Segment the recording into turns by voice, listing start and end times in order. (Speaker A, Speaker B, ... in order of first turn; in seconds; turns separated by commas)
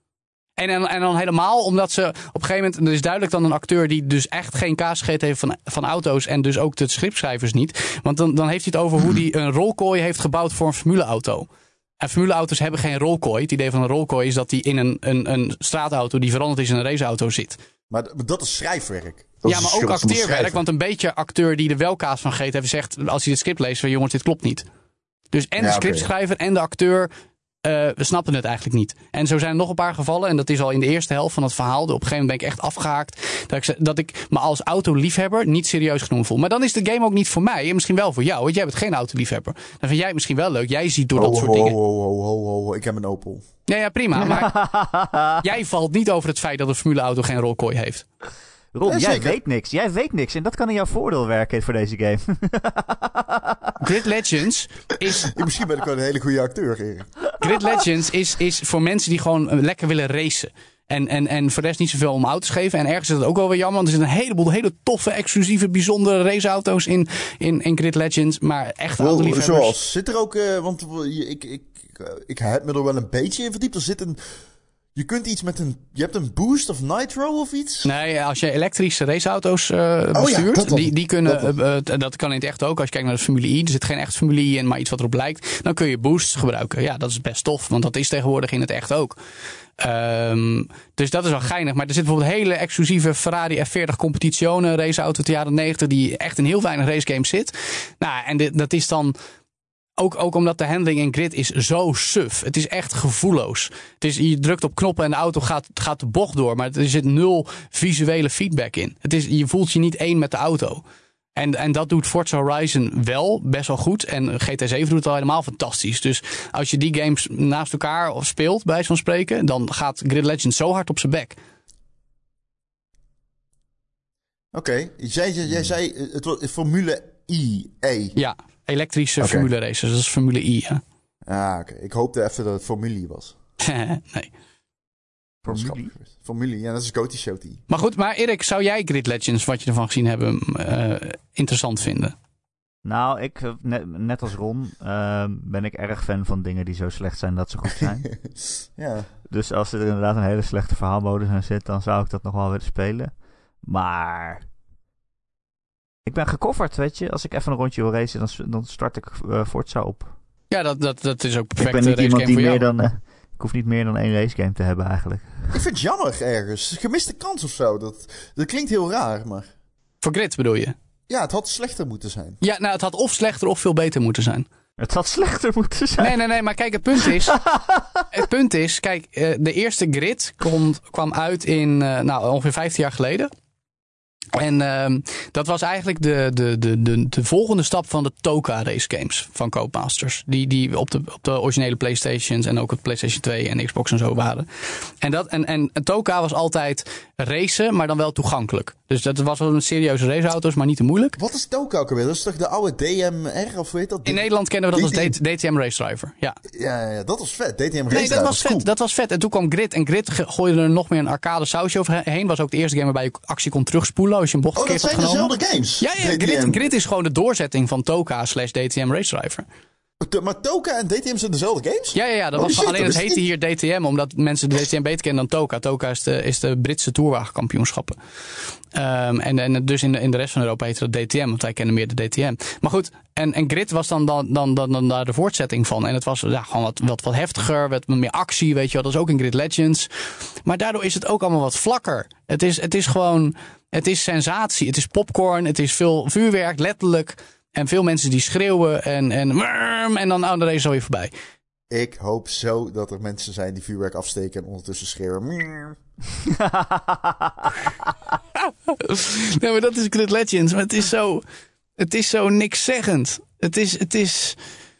Speaker A: 0.6-11.5, Speaker A: 12.0-17.6, Speaker B: 17.9-20.6, Speaker A: 19.4-24.6, Speaker A: 25.3-27.1, Speaker B: 25.6-26.1, Speaker A: 27.6-41.8, Speaker B: 41.1-43.4, Speaker A: 43.6-44.5, Speaker C: 44.2-45.4, Speaker A: 45.4-48.0, Speaker C: 48.7-53.8, Speaker B: 48.8-49.4, Speaker A: 53.8-55.3, Speaker B: 55.2-57.3, Speaker A: 57.4-69.7, Speaker B: 69.0-74.2, Speaker B: 74.9-77.9, Speaker A: 77.8-89.2, Speaker B: 80.1-81.5, Speaker A: 89.8-99.1, Speaker A: 100.0-110.8, Speaker A: 111.3-121.4, Speaker B: 124.5-128.2, Speaker A: 128.1-130.8, Speaker B: 129.2-129.5, Speaker B: 131.2-133.3, Speaker A: 133.6-134.3, Speaker C: 135.4-135.9, Speaker B: 135.4-137.6, Speaker A: 137.7-142.1, Speaker C: 142.8-148.1, Speaker B: 148.8-149.1, Speaker C: 149.3-153.1, Speaker C: 153.6-154.4, Speaker C: 156.1-160.1, Speaker A: 160.5-162.6, Speaker C: 161.6-165.5, Speaker B: 165.5-169.5, Speaker A: 170.0-170.7, Speaker B: 171.1-172.4, Speaker A: 172.4-174.4, Speaker C: 174.8-176.2, Speaker A: 176.0-177.4, Speaker C: 177.0-178.1, Speaker A: 178.1-183.3, Speaker A: 184.3-194.5, Speaker A: 195.0-201.2, Speaker B: 201.2-205.2, Speaker A: 204.1-206.4, Speaker B: 206.5-208.7, Speaker A: 207.9-219.5, Speaker B: 214.6-216.7, Speaker B: 220.0-223.2, Speaker A: 221.9-228.0, Speaker A: 228.7-239.9, Speaker A: 240.4-251.1, Speaker B: 251.7-255.8, Speaker C: 256.2-257.5, Speaker A: 258.4-261.2, Speaker A: 261.8-264.4